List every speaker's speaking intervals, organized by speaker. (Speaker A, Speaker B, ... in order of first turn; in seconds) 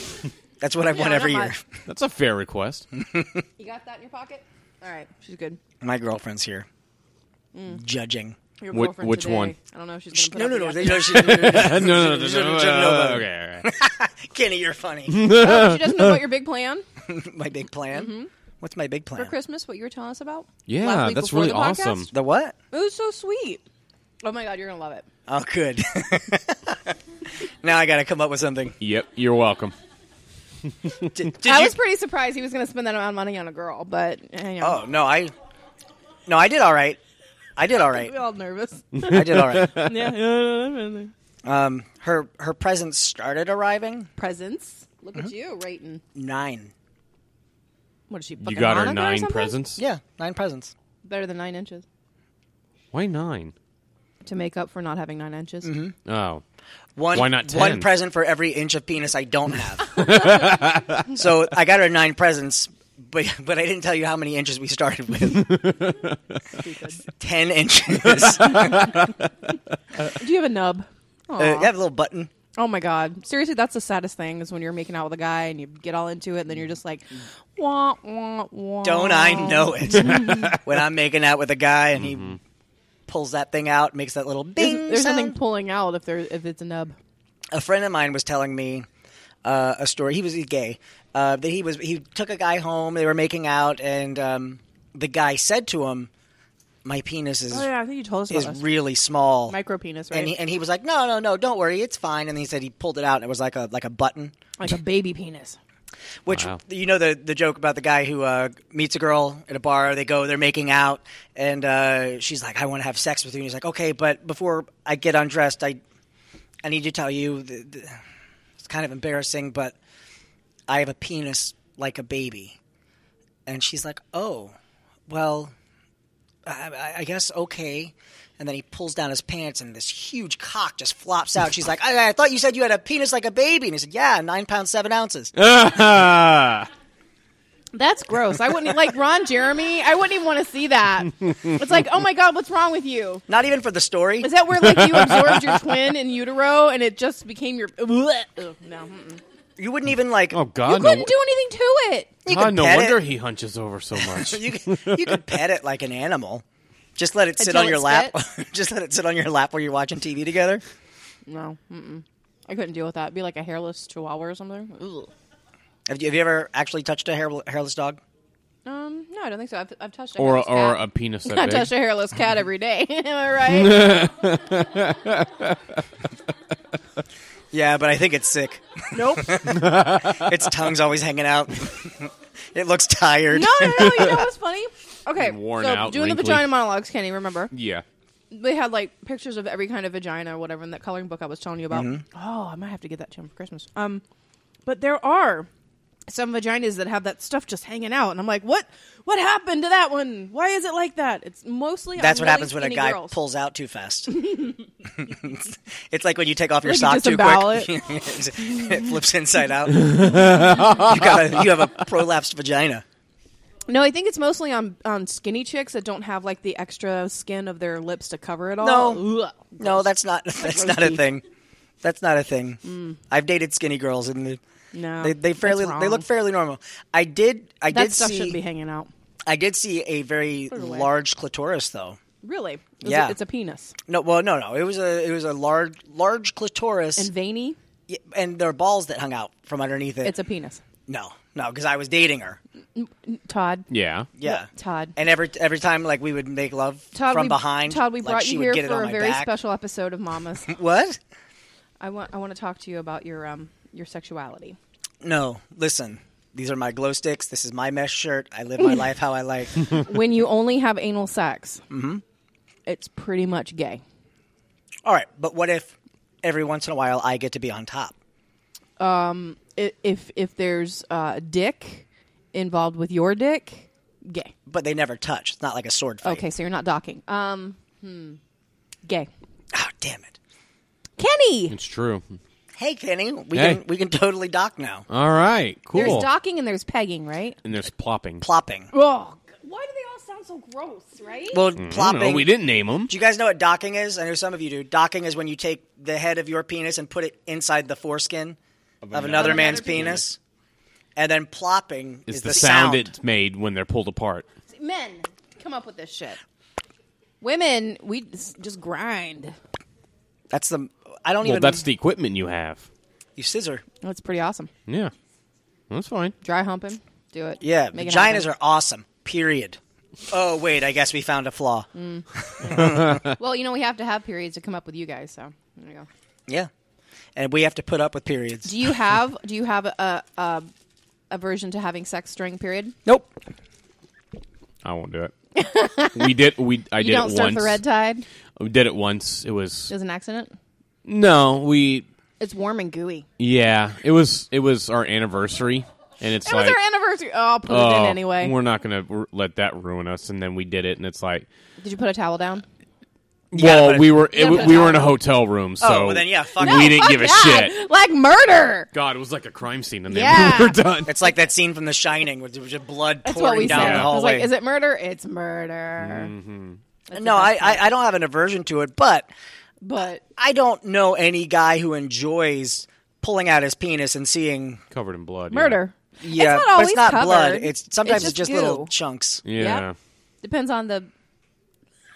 Speaker A: 0.6-1.6, 2.9-3.4, 5.8-6.7, 7.7-8.3, 10.1-15.3, 17.1-19.3, 22.1-22.5, 25.3-28.8, 31.1-31.8, 34.6-35.3, 36.2-37.0, 37.6-38.1, 39.1-39.8, 41.4-44.1, 46.1-46.7, 49.8-50.7, 55.6-55.9, 57.0-65.9, 67.1-69.0, 71.4-72.3, 78.8-82.4, 83.1-85.4, 87.5-88.9, 89.4-96.1, 96.8-97.7, 98.3-99.5, 100.1-104.3, 106.2-115.8, 116.6-118.0, 118.6-119.8, 120.7-122.6, 123.5-124.5, 125.1-125.5, 126.4-135.3, 143.3-144.3, 149.6-150.4, 152.2-153.0, 153.9-156.4, 156.9-160.6, 165.9-168.0, 177.5-184.3, 191.7-192.0, 202.0-204.2, 204.8-212.8, 218.6-219.0, 219.6-221.2, 221.8-224.4, 225.0-228.4, 229.2-232.0, 232.8-233.2, 233.9-237.1, 237.9-240.1, 240.9-242.4, 244.1-249.3, 250.4-251.0, 255.0-259.8, 261.7-262.0, 264.8-267.9, 274.5-276.2, 279.5-280.1, 282.6-284.9, 288.2-288.7, 291.3-292.3, 292.9-298.4, 298.9-300.2, 300.9-302.9, 310.3-311.6, 313.2-313.6, 317.4-319.6, 320.1-323.1, 327.1-328.8, 353.3-354.7, 355.6-356.9, 360.8-364.3, 366.9-369.1, 370.1-374.6, 376.0-379.2
Speaker B: 0.9-1.5, 3.6-5.6, 7.5-7.8, 8.6-11.5, 15.2-16.9, 17.9-18.3, 19.1-22.1, 22.7-23.6, 24.2-25.1, 31.4-34.8, 37.9-41.1, 44.2-46.0, 48.1-49.6, 51.0-51.8, 54.2-55.7, 66.5-67.0, 70.0-71.7, 72.5-80.6, 84.6-87.0, 97.5-98.6, 99.5-100.3, 104.6-105.6, 137.7-143.2, 144.2-149.2, 150.6-152.1, 157.4-158.2, 161.3-165.1, 168.6-174.1, 178.9-179.5, 183.3-187.5, 188.3-194.0, 194.6-195.5, 196.1-203.2, 204.1-204.6, 206.6-207.7, 213.7-221.1, 222.6-223.0, 224.7-226.0, 227.7-228.9, 230.5-230.9, 232.2-233.7, 237.0-237.6, 240.0-240.6, 242.8-243.7, 244.2-244.9, 246.9-250.5, 251.8-254.6, 258.6-258.8, 259.6-261.6, 262.6-263.8, 268.8-274.3, 276.0-278.2, 278.8-279.1, 281.0-281.6, 285.7-287.4, 288.7-291.5, 299.1-300.0, 304.5-306.2, 307.2-309.4, 313.8-314.5, 316.2-318.3, 321.7-325.9, 328.4-330.5, 331.1-332.8, 335.3-336.2, 336.8-338.0, 339.7-340.3, 342.2-343.1, 346.2-348.3, 351.6-352.4, 354.1-354.9, 356.4-358.7, 359.9-360.6, 363.0-366.1, 366.9-367.7, 369.6-370.0, 375.3-378.7, 379.3-379.7, 380.2-380.9
Speaker C: 1.9-2.9, 8.7-9.5, 10.8-13.7, 15.1-16.3, 20.7-22.1, 28.8-29.7, 30.8-31.1, 39.0-39.9, 48.4-49.8, 52.9-53.5, 56.0-56.4, 57.1-57.9, 59.9-61.0, 65.3-66.2, 68.1-69.1, 82.0-82.4, 106.3-106.6, 135.3-136.7, 144.6-145.5, 150.3-151.1, 152.3-155.2, 170.2-171.7, 173.5-175.8, 179.5-180.3, 185.2-186.5, 187.5-187.8, 209.7-211.5, 243.7-244.1, 281.5-282.0, 283.3-283.6, 284.9-286.1, 287.4-288.2, 291.6-292.9, 298.8-300.0, 302.1-304.2, 311.2-312.7, 314.7-314.9, 315.7-316.1, 334.6-335.1, 335.9-337.6, 338.4-339.7, 340.9-341.9, 343.2-346.6, 347.5-351.3, 353.3-357.5, 358.7-360.9, 363.4-363.9, 365.8-366.6, 374.7-375.6, 379.2-379.7